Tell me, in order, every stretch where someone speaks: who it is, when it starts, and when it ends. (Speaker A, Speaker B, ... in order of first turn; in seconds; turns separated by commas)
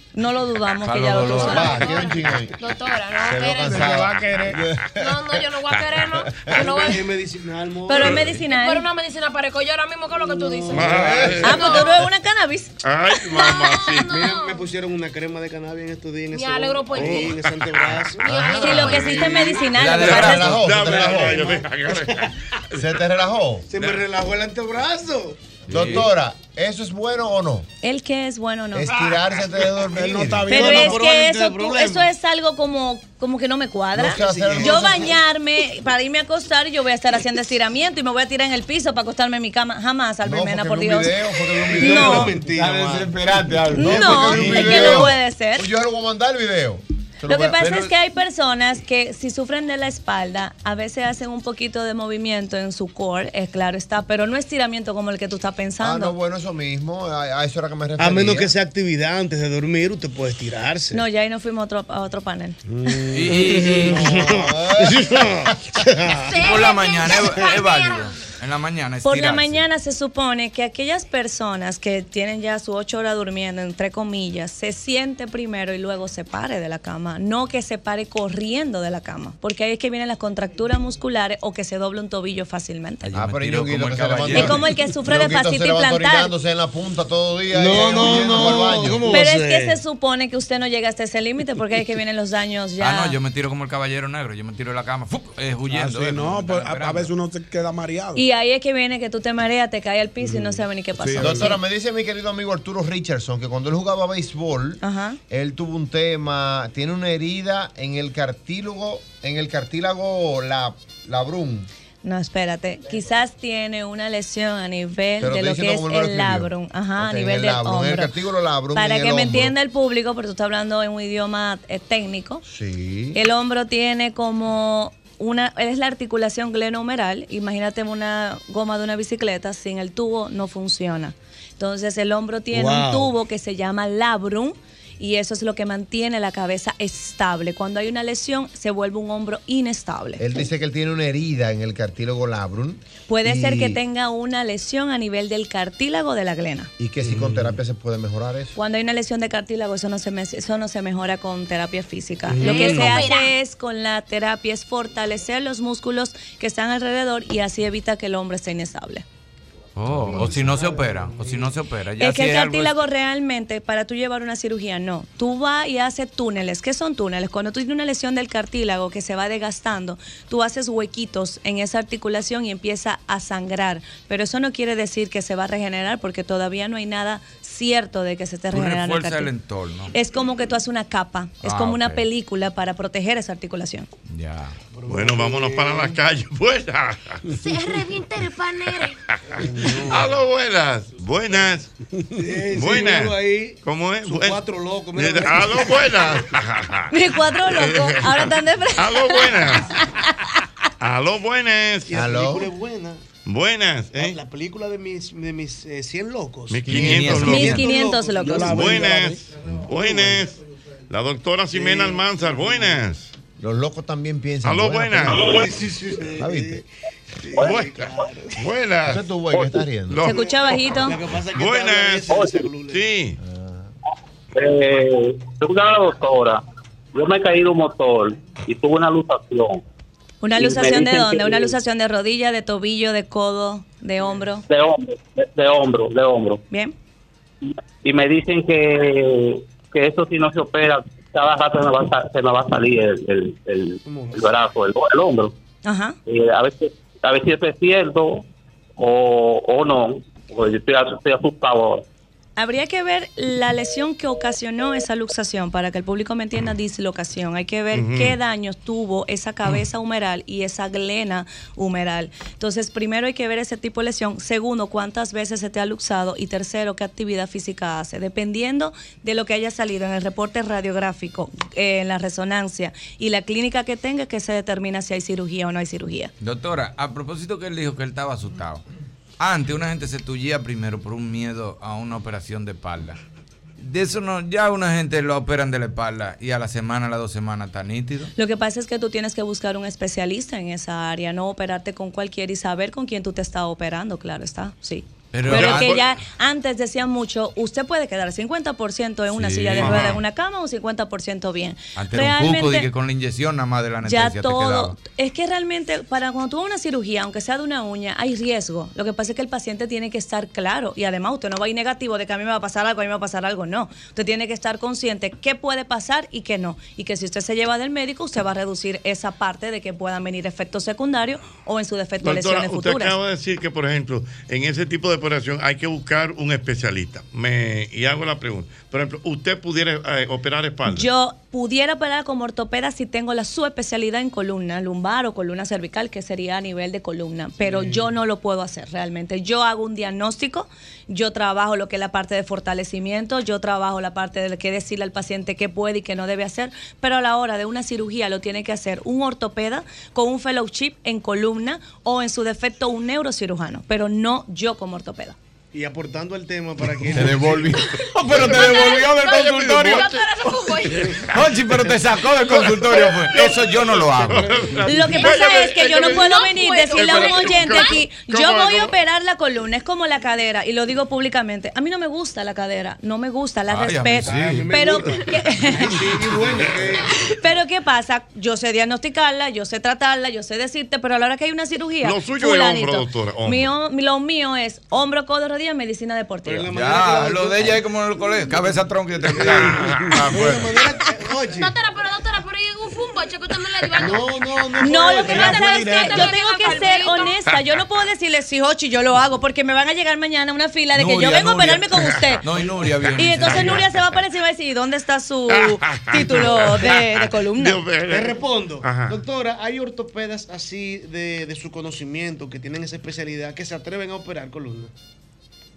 Speaker A: 0.1-1.8, Speaker B: 0.8-1.7, Speaker C: 1.3-4.0, Speaker D: 1.4-2.5, Speaker D: 3.2-5.1, Speaker E: 3.7-4.6, Speaker C: 5.0-7.0, Speaker F: 6.5-8.4, Speaker A: 7.9-8.9, Speaker C: 8.4-11.9, Speaker F: 10.3-11.6, Speaker G: 10.7-11.7, Speaker D: 10.9-11.4, Speaker A: 11.4-12.7, Speaker G: 12.8-14.1, Speaker C: 13.2-14.7, Speaker F: 14.1-19.7, Speaker C: 16.3-17.3, Speaker G: 16.9-18.1, Speaker C: 18.2-19.1, Speaker D: 18.2-19.3, Speaker A: 18.6-20.5, Speaker B: 19.6-20.7, Speaker G: 19.8-22.8, Speaker D: 19.9-21.5, Speaker F: 20.8-22.3, Speaker D: 22.8-23.6, Speaker F: 23.7-25.4, Speaker B: 25.7-26.1, Speaker D: 25.7-27.7, Speaker A: 27.8-29.0, Speaker D: 28.7-30.5, Speaker E: 29.9-31.0, Speaker A: 30.5-42.3, Speaker F: 30.5-32.1, Speaker D: 33.9-35.1, Speaker F: 34.1-35.0, Speaker D: 40.2-42.3, Speaker F: 41.7-43.1, Speaker E: 42.6-44.7, Speaker B: 42.6-45.1, Speaker A: 43.7-45.7, Speaker D: 43.8-47.6, Speaker F: 44.1-45.1, Speaker A: 47.3-56.1, Speaker B: 47.6-47.9, Speaker D: 55.8-58.5, Speaker F: 58.0-61.0, Speaker A: 60.9-62.6, Speaker B: 63.1-64.0, Speaker F: 63.1-66.4, Speaker D: 63.8-65.3, Speaker C: 66.2-68.1, Speaker B: 66.4-69.6, Speaker A: 69.0-83.2, Speaker B: 83.0-84.7, Speaker D: 83.1-89.1, Speaker A: 84.3-86.3, Speaker F: 87.5-89.8, Speaker A: 89.1-93.2, Speaker B: 92.8-97.1, Speaker E: 95.7-98.2, Speaker A: 98.1-101.5, Speaker E: 100.2-101.6, Speaker D: 101.2-111.7, Speaker A: 104.8-105.2, Speaker A: 112.0-118.1, Speaker D: 115.2-119.5, Speaker A: 118.7-122.4, Speaker D: 122.4-123.2, Speaker A: 123.1-140.2, Speaker F: 132.5-133.1, Speaker D: 140.2-143.8, Speaker A: 143.1-146.7, Speaker D: 146.8-148.6, Speaker A: 148.6-159.0, Speaker F: 152.3-153.1, Speaker C: 152.5-153.3, Speaker B: 159.8-162.8, Speaker F: 159.9-161.5, Speaker A: 162.0-179.3, Speaker B: 178.5-179.9, Speaker A: 179.9-183.9, Speaker B: 181.4-182.1, Speaker B: 184.1-184.6, Speaker F: 184.7-186.0, Speaker G: 184.9-187.2, Speaker C: 187.3-188.9, Speaker G: 188.8-191.7, Speaker E: 189.4-189.8, Speaker F: 189.6-190.0, Speaker F: 192.2-195.9, Speaker G: 192.5-199.7, Speaker A: 196.9-200.1, Speaker G: 200.8-201.9, Speaker F: 201.9-203.0, Speaker D: 201.9-202.5, Speaker G: 203.2-204.2, Speaker F: 203.9-208.6, Speaker G: 206.5-207.6, Speaker B: 206.7-207.8, Speaker A: 207.3-208.7, Speaker E: 208.3-209.2, Speaker G: 208.4-210.4, Speaker G: 210.9-213.1, Speaker F: 211.5-212.8, Speaker D: 213.4-215.4, Speaker G: 214.4-215.5, Speaker F: 215.1-216.6, Speaker D: 216.2-216.6, Speaker F: 217.2-218.4, Speaker G: 217.3-220.3, Speaker D: 218.8-220.0, Speaker A: 220.0-221.0, Speaker F: 220.7-222.8, Speaker G: 221.3-223.2, Speaker D: 223.2-223.7, Speaker H: 224.3-226.4, Speaker H: 226.9-229.6, Speaker A: 230.2-234.4, Speaker H: 230.3-231.5, Speaker H: 234.5-236.4, Speaker H: 237.8-245.3, Speaker F: 243.8-244.3, Speaker A: 245.6-245.9, Speaker H: 246.1-248.2, Speaker H: 248.8-251.8, Speaker A: 252.4-276.1, Speaker G: 257.7-258.2, Speaker B: 276.2-278.6, Speaker B: 279.2-283.0, Speaker B: 283.6-288.1, Speaker A: 288.1-302.7, Speaker B: 295.1-295.8, Speaker G: 295.3-296.0, Speaker B: 299.1-300.0, Speaker G: 299.6-300.0, Speaker B: 301.8-304.8, Speaker A: 303.8-322.9, Speaker G: 322.0-330.9, Speaker A: 330.7-355.1, Speaker F: 337.4-337.9, Speaker F: 355.5-357.6, Speaker B: 356.9-359.9, Speaker G: 357.9-360.0, Speaker C: 358.2-361.0, Speaker G: 360.7-361.2, Speaker B: 361.1-364.4, Speaker G: 362.2-368.7, Speaker F: 363.7-365.0, Speaker A: 364.7-375.8, Speaker C: 365.0-367.8, Speaker B: 373.5-374.6, Speaker F: 374.1-376.9, Speaker A: 377.2-386.5, Speaker G: 381.8-383.5, Speaker F: 386.2-388.6, Speaker B: 386.5-390.4, Speaker F: 389.1-391.6, Speaker G: 389.3-390.5, Speaker C: 391.3-394.1, Speaker F: 393.8-395.4, Speaker A: 394.6-402.2, Speaker C: 394.6-397.1, Speaker E: 395.1-396.0, Speaker B: 400.7-403.8, Speaker A: 402.9-407.6, Speaker G: 403.3-403.6, Speaker G: 405.3-409.0, Speaker F: 407.9-414.7